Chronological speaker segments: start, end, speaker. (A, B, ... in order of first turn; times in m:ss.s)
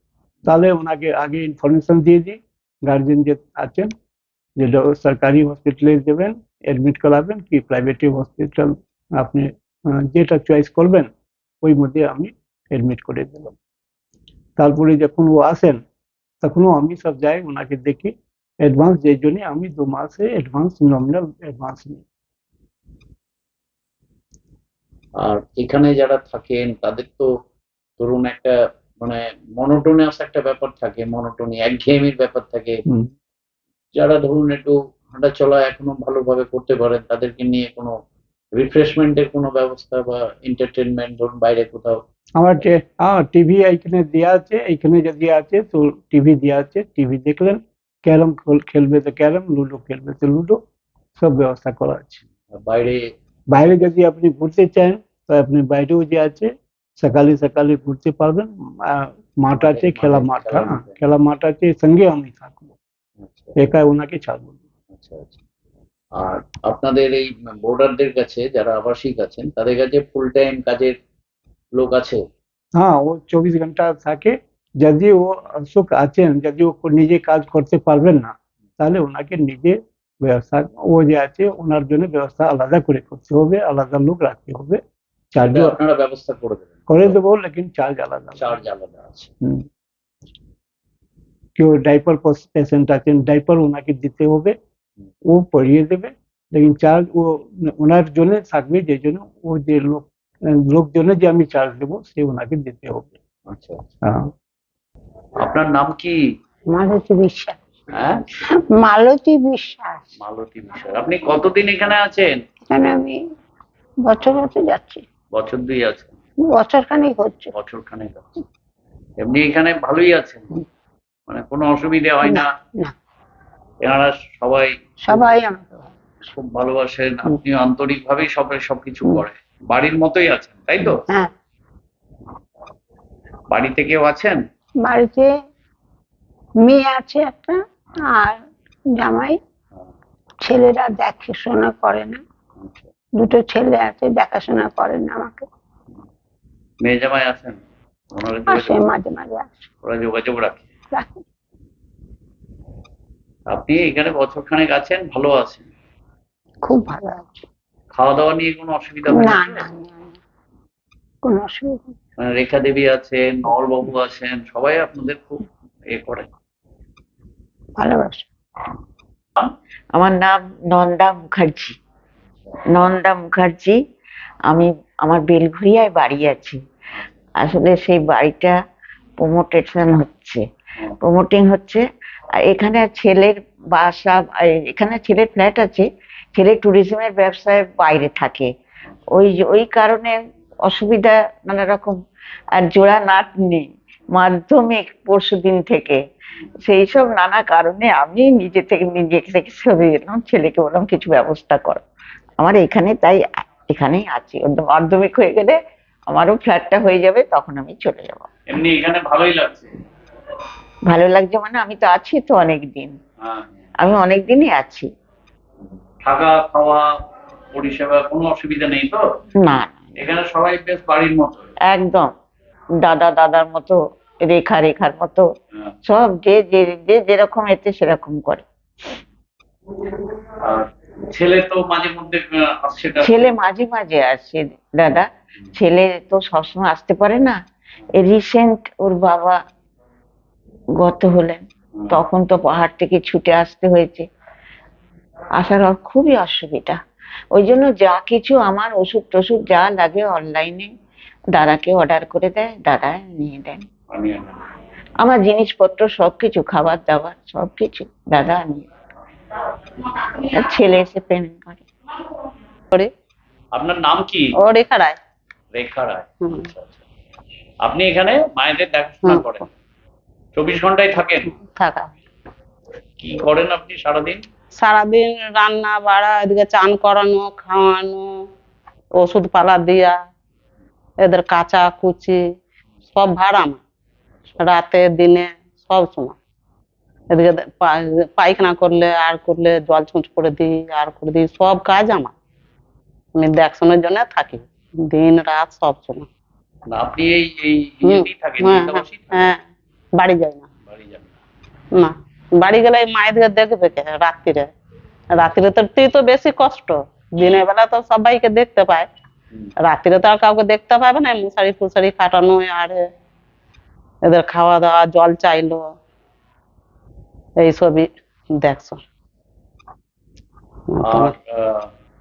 0:00.4-0:03.9 A
0:04.6-0:11.1 A
0:11.6-0:13.5 A
0:14.6-0:15.8 A
0:16.4-0:22.0 A
0:25.2-0:27.3 B
0:28.0-0:32.8 B
0:34.0-0:37.9 B
0:38.6-0:42.0 B
0:42.4-0:50.6 A
0:51.2-0:52.2 A
0:52.5-0:53.0 B
0:53.5-1:02.8 A
0:59.5-1:01.0 B
1:03.2-1:03.6 B
1:03.6-1:04.6 A
1:04.9-1:05.4 B
1:06.2-1:11.0 B
1:11.8-1:12.2 B
1:12.7-1:24.8 A
1:25.3-1:25.8 A
1:25.4-1:27.2 B
1:26.9-1:28.5 A
1:28.4-1:29.3 B
1:31.6-1:34.6 A
1:35.3-1:43.2 A
1:43.5-1:43.8 B
1:44.0-1:44.3 A
1:45.4-1:46.2 B
1:46.7-1:47.6 C
1:47.9-1:48.2 B
1:48.5-1:50.1 C
1:50.2-1:52.4 B
1:52.7-1:53.2 C
1:54.0-1:55.0 C
1:55.3-1:56.1 B
1:56.4-1:57.5 C
1:57.5-1:58.3 B
1:59.2-2:00.5 B
2:01.3-2:02.5 B
2:02.2-2:02.9 C
2:03.8-2:05.2 B
2:05.0-2:05.9 C
2:06.2-2:11.0 B
2:10.9-2:11.3 C
2:13.5-2:14.4 B
2:14.8-2:15.3 C
2:16.6-2:18.4 C
2:18.9-2:19.4 C
2:20.4-2:22.2 C
2:23.2-2:25.5 C
2:26.8-2:27.6 B
2:28.1-2:28.9 B
2:28.5-2:29.6 C
2:29.8-2:30.6 B
2:30.9-2:31.2 C
2:33.5-2:35.6 B
2:36.6-2:37.4 C
2:37.9-2:39.6 B
2:39.1-2:40.2 C
2:41.2-2:41.9 C
2:42.2-2:46.3 B
2:47.8-2:48.3 C
2:49.9-2:51.7 D
2:52.7-2:53.8 D
2:54.5-2:56.6 D
2:57.4-2:58.6 D
2:59.2-3:00.4 D
3:01.0-3:01.8 D
3:02.4-3:08.5 D
3:09.1-3:12.0 D
3:12.5-3:16.0 D
3:16.6-3:21.8 D
3:22.4-3:25.6 D
3:26.1-3:28.3 D
3:28.5-3:29.7 B
3:30.9-3:32.9 D
3:33.2-3:33.5 B
3:33.8-3:34.9 D
3:36.0-3:37.0 B
3:37.5-3:39.0 B
3:39.4-3:39.9 D
3:40.0-3:41.5 B
3:41.7-3:42.1 D
3:42.8-3:45.2 D
3:45.8-3:48.4 D
3:50.4-3:53.2 B
3:53.0-3:57.4 D
3:57.9-3:59.4 D
4:00.8-4:04.0 D
4:05.4-4:06.8 D
4:07.3-4:10.7 D
4:11.3-4:13.6 D
4:13.9-4:14.4 B
4:15.0-4:18.6 D
4:20.2-4:21.6 D
4:23.5-4:24.3 B
4:24.4-4:25.0 E
4:25.5-4:26.7 B
4:27.6-4:29.5 B
4:30.3-4:31.3 B
4:31.4-4:31.9 E
4:33.0-4:34.2 B
4:34.6-4:38.2 E
4:38.9-4:40.0 E
4:41.0-4:42.2 E
4:42.9-4:43.6 E
4:44.4-4:46.1 E
4:47.1-4:52.1 E
4:53.2-4:56.1 E
4:56.7-4:59.3 B
4:57.8-4:59.4 E
5:00.0-5:00.5 E
5:00.7-5:01.1 B
5:01.7-5:04.5 E
5:05.1-5:08.9 E
5:09.6-5:12.9 E
5:14.0-5:15.7 E
5:17.4-5:18.8 E
5:20.7-5:21.1 E
5:20.8-5:21.7 B